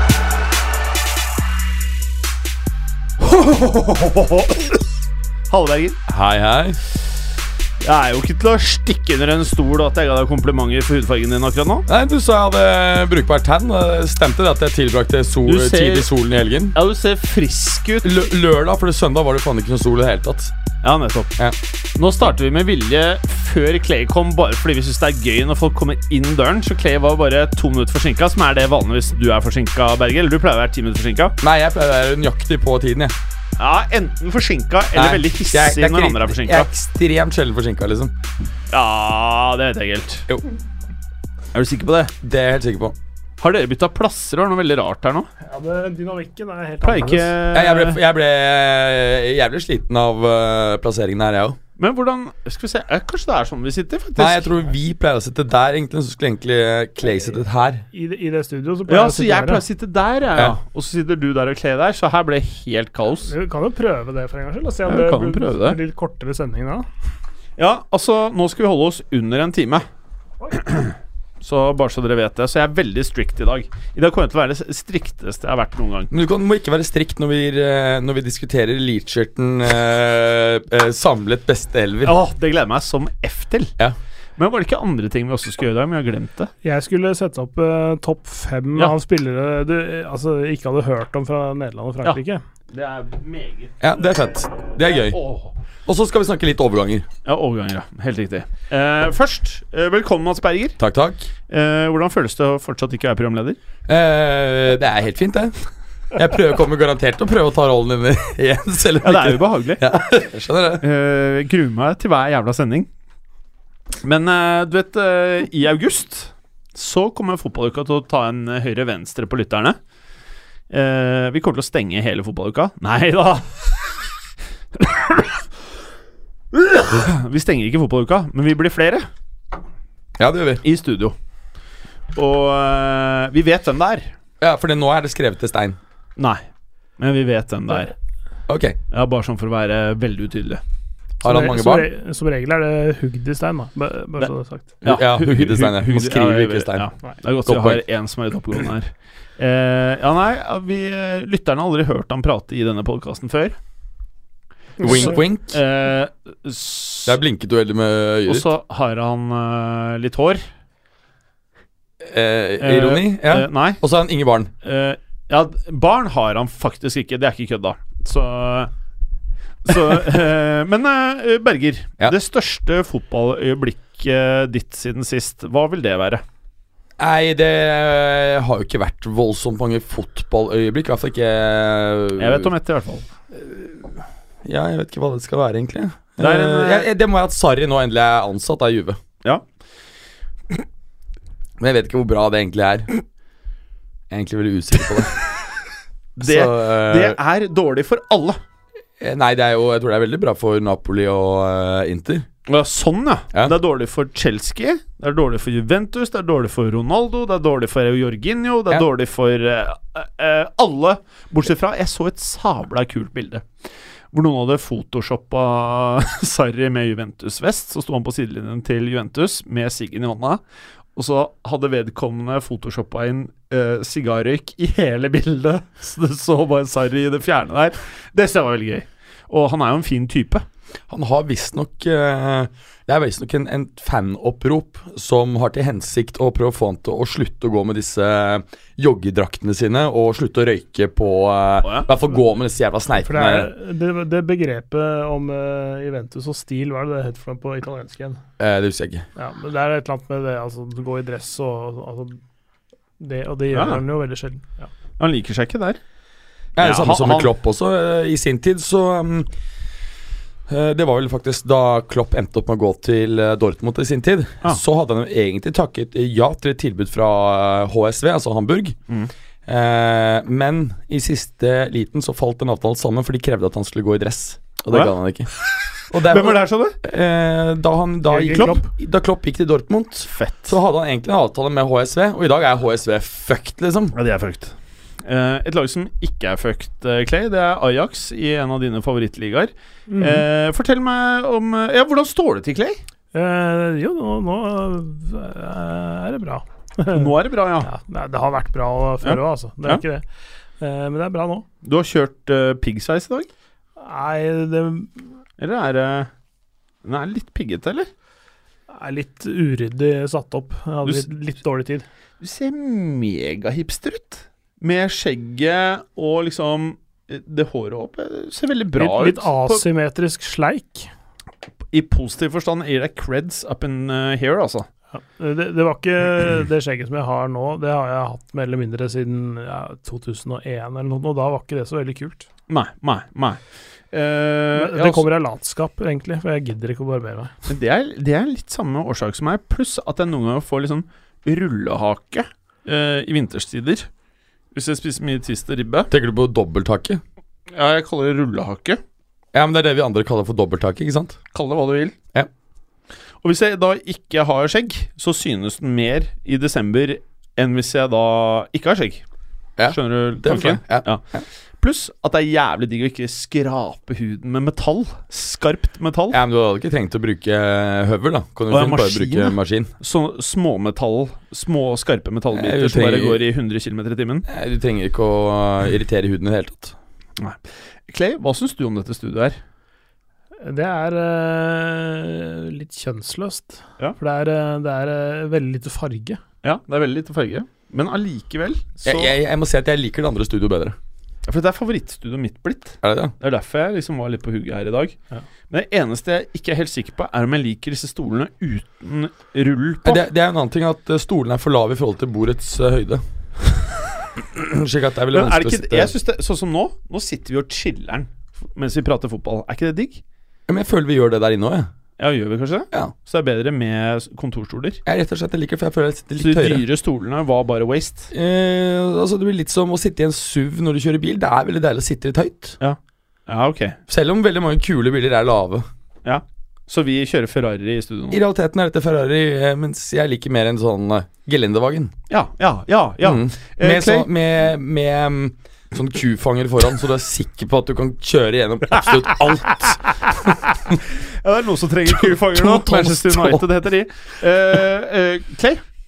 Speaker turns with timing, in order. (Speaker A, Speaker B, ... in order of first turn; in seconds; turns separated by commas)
Speaker A: 3.2-4.8, Speaker A: 5.5-6.0, Speaker B: 6.1-6.8, Speaker A: 7.8-11.9, Speaker B: 11.9-16.8, Speaker A: 15.4-16.1, Speaker A: 16.7-18.3, Speaker B: 18.0-20.5, Speaker A: 20.8-21.4, Speaker A: 22.0-31.4, Speaker B: 31.4-33.1, Speaker A: 33.6-36.7, Speaker B: 34.9-38.1, Speaker A: 38.7-40.3, Speaker A: 41.5-42.1, Speaker B: 42.2-43.0, Speaker A: 43.4-45.3, Speaker C: 45.4-47.4, Speaker A: 46.8-48.0, Speaker B: 47.5-51.6, Speaker A: 51.8-54.6, Speaker B: 54.2-57.9, Speaker C: 57.9-59.6, Speaker A: 58.9-63.3, Speaker C: 63.3-66.9, Speaker A: 64.9-65.8, Speaker A: 67.6-69.8, Speaker A: 70.5-76.1, Speaker B: 76.1-82.2, Speaker A: 82.0-83.7, Speaker A: 84.4-86.5, Speaker C: 86.6-92.4, Speaker A: 92.7-93.8, Speaker B: 93.8-95.2, Speaker A: 94.7-95.5, Speaker B: 95.9-97.1, Speaker A: 97.2-100.8, Speaker B: 100.8-101.3, Speaker A: 101.5-103.6, Speaker B: 103.9-105.6, Speaker B: 106.1-110.8, Speaker A: 109.0-109.9, Speaker A: 110.8-112.9, Speaker A: 114.0-119.8, Speaker A: 120.7-123.7, Speaker A: 124.8-125.4, Speaker A: 126.5-129.1, Speaker B: 130.2-130.6, Speaker A: 130.6-131.2, Speaker A: 132.2-134.1, Speaker B: 134.4-135.8, Speaker A: 136.2-136.4, Speaker A: 137.0-137.9, Speaker B: 138.5-138.8, Speaker A: 138.9-140.6, Speaker B: 141.2-141.9, Speaker C: 141.2-144.8, Speaker A: 144.8-153.6, Speaker B: 144.8-146.9, Speaker B: 147.5-147.8, Speaker B: 154.8-155.6, Speaker C: 154.8-155.1, Speaker A: 154.8-157.2, Speaker B: 157.1-158.5, Speaker A: 158.3-160.4, Speaker B: 162.0-164.5, Speaker A: 162.6-163.8, Speaker A: 164.6-168.7, Speaker A: 169.7-176.2, Speaker B: 177.0-182.5, Speaker A: 182.2-183.1, Speaker B: 183.3-183.9, Speaker B: 184.4-189.0, Speaker A: 186.2-186.9, Speaker B: 191.6-192.9, Speaker B: 194.1-195.2, Speaker A: 196.2-198.4, Speaker B: 196.2-197.2, Speaker B: 199.0-202.3, Speaker A: 202.5-213.5, Speaker A: 214.1-220.4, Speaker A: 221.0-230.4, Speaker B: 230.9-243.5, Speaker A: 241.6-241.9, Speaker C: 243.0-248.2, Speaker B: 248.4-249.1, Speaker C: 249.2-252.2, Speaker C: 253.0-254.7, Speaker A: 253.5-253.8, Speaker A: 255.0-255.8, Speaker B: 256.6-259.3, Speaker A: 256.6-257.3, Speaker B: 260.5-268.8, Speaker B: 269.5-275.3, Speaker B: 275.9-284.0, Speaker A: 275.9-276.8, Speaker C: 278.1-278.7, Speaker A: 278.3-278.6, Speaker A: 280.1-280.6, Speaker A: 283.9-292.8, Speaker C: 289.9-290.2, Speaker C: 293.1-297.1, Speaker A: 296.9-297.7, Speaker C: 297.6-300.1, Speaker A: 299.0-299.8, Speaker C: 300.6-301.4, Speaker A: 301.6-303.3, Speaker C: 303.8-305.0, Speaker A: 305.4-306.1, Speaker A: 306.8-307.9, Speaker C: 308.7-311.9, Speaker A: 310.8-311.1, Speaker A: 312.2-319.6, Speaker C: 318.8-320.9, Speaker A: 321.7-324.7, Speaker C: 324.9-332.3, Speaker A: 332.5-333.4, Speaker A: 333.9-335.1, Speaker C: 334.6-337.3, Speaker A: 337.5-343.9, Speaker A: 344.5-345.9, Speaker B: 345.9-347.0, Speaker A: 347.5-348.8, Speaker B: 349.3-351.2, Speaker A: 351.3-352.0, Speaker A: 353.2-359.0, Speaker B: 359.6-361.2, Speaker A: 359.7-361.0, Speaker A: 361.6-366.2, Speaker B: 366.1-369.7, Speaker A: 368.5-374.3, Speaker B: 372.3-373.2, Speaker B: 374.3-376.8, Speaker A: 377.2-379.4, Speaker C: 380.4-386.2, Speaker A: 386.4-389.1, Speaker B: 388.8-390.8, Speaker A: 391.3-395.0, Speaker B: 392.8-393.1, Speaker A: 395.5-400.0, Speaker B: 399.8-403.5, Speaker B: 404.2-405.9, Speaker A: 405.1-410.0, Speaker B: 410.5-411.7, Speaker A: 412.0-414.8, Speaker B: 414.9-416.6, Speaker A: 416.2-418.1, Speaker B: 418.1-422.6, Speaker A: 422.6-423.8, Speaker B: 423.9-425.7, Speaker A: 426.1-428.2, Speaker B: 428.1-431.9, Speaker A: 432.1-434.1, Speaker B: 433.0-439.8, Speaker A: 440.9-445.6, Speaker B: 441.9-443.4